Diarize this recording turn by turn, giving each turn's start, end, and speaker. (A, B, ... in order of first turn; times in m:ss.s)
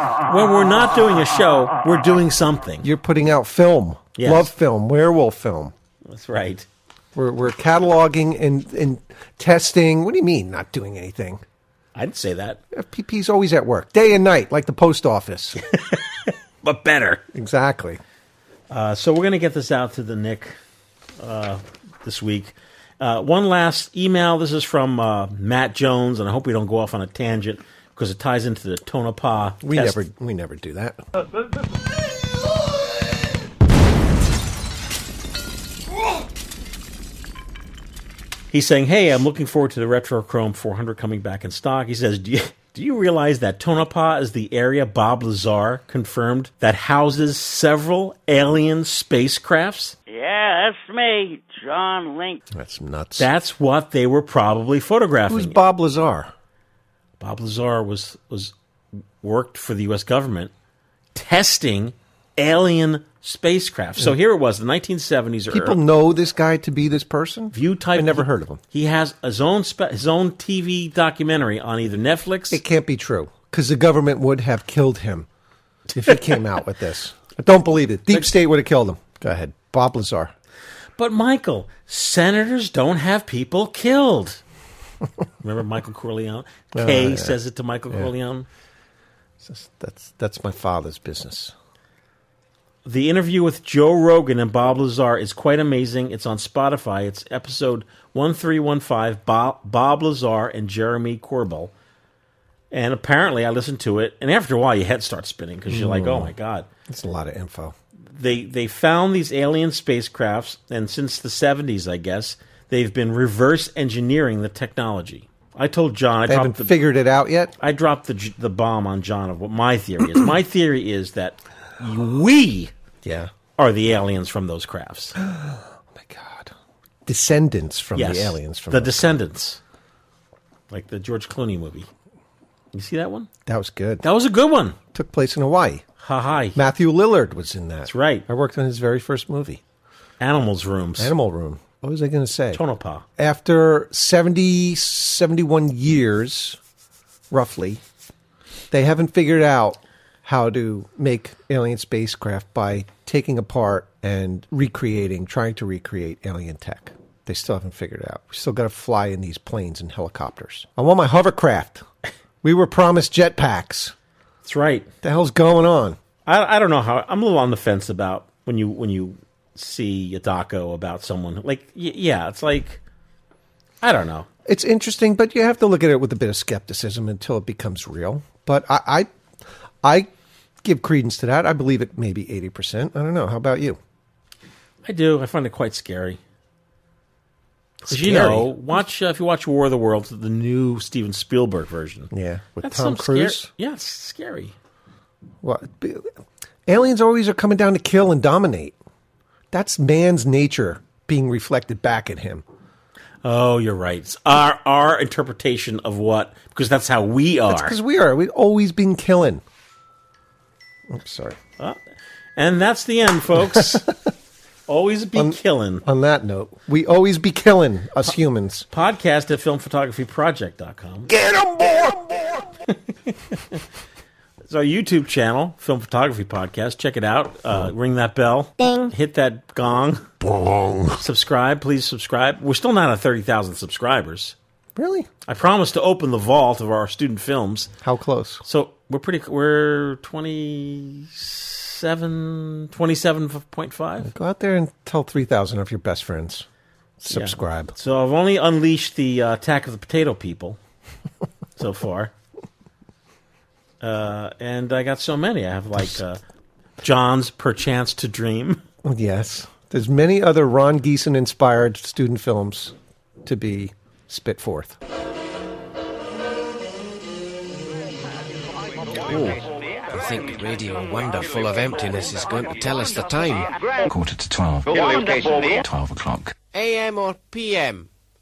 0:00.3-0:02.9 A
0:02.8-0:05.7 B
0:04.2-0:04.5 A
0:06.1-0:06.7 A
0:07.2-0:11.4 B
0:12.0-0:12.6 A
0:12.7-0:15.6 B
0:15.7-0:17.2 A
0:17.3-0:18.0 B
0:18.7-0:20.6 A
0:21.2-0:30.0 A
0:29.6-0:31.0 B
0:38.5-0:50.0 A
0:50.1-0:52.4 C
0:52.5-0:53.3 B
0:53.2-0:55.6 A
0:55.3-0:56.3 B
0:57.2-0:58.5 A
0:59.2-1:00.5 A
1:01.2-1:05.8 A
1:05.5-1:08.6 B
1:07.5-1:12.6 A
1:12.5-1:15.3 B
1:15.9-1:20.3 B
1:21.0-1:24.4 A
1:25.4-1:28.5 A
1:26.7-1:27.4 B
1:29.4-1:31.5 B
1:32.8-1:41.7 A
1:42.7-1:46.7 A
1:45.7-1:46.3 B
1:46.9-1:47.8 B
1:48.1-1:56.7 A
1:56.3-1:57.5 B
1:57.6-2:02.7 A
2:03.0-2:03.3 B
2:03.6-2:05.2 A
2:05.2-2:06.5 B
2:07.1-2:09.2 B
2:08.0-2:09.6 A
2:10.7-2:11.9 A
2:12.7-2:13.3 A
2:13.5-2:14.0 B
2:14.0-2:14.8 A
2:14.9-2:15.8 B
2:16.0-2:16.6 A
2:16.6-2:19.6 B
2:17.9-2:18.2 A
2:20.2-2:21.1 A
2:21.0-2:22.6 B
2:22.5-2:23.0 A
2:23.2-2:26.6 B
2:27.3-2:27.8 B
2:28.7-2:41.8 B
2:42.4-2:44.0 B
2:44.4-2:44.9 A
2:45.0-2:46.0 B
2:46.3-2:52.8 A
2:53.8-2:54.3 A
2:54.5-2:59.1 B
2:59.8-3:00.1 B
3:00.6-3:03.8 B
3:04.8-3:06.2 A
3:07.8-3:08.6 B
3:07.9-3:12.1 A
3:12.1-3:13.5 B
3:12.6-3:14.6 A
3:15.4-3:16.1 B
3:16.7-3:18.8 B
3:19.5-3:22.4 B
3:23.2-3:27.8 A
3:27.5-3:29.4 B
3:30.9-3:31.4 B
3:32.4-3:33.9 A
3:33.5-3:33.9 B
3:34.7-3:35.8 A
3:35.2-3:38.7 B
3:38.7-3:41.1 A
3:41.1-3:42.4 B
3:43.3-3:43.6 A
3:44.5-3:50.1 A
3:50.2-3:50.9 B
3:51.0-3:54.4 A
3:54.8-3:55.1 B
3:55.3-3:57.7 A
3:57.8-3:58.4 B
3:58.5-4:04.1 A
4:04.0-4:06.5 B
4:07.0-4:07.7 B
4:07.1-4:10.6 A
4:11.6-4:12.1 A
4:13.8-4:16.2 A
4:16.8-4:18.6 A
4:18.8-4:24.8 B
4:29.1-4:33.5 D
4:33.9-4:36.3 E
4:36.5-4:37.9 D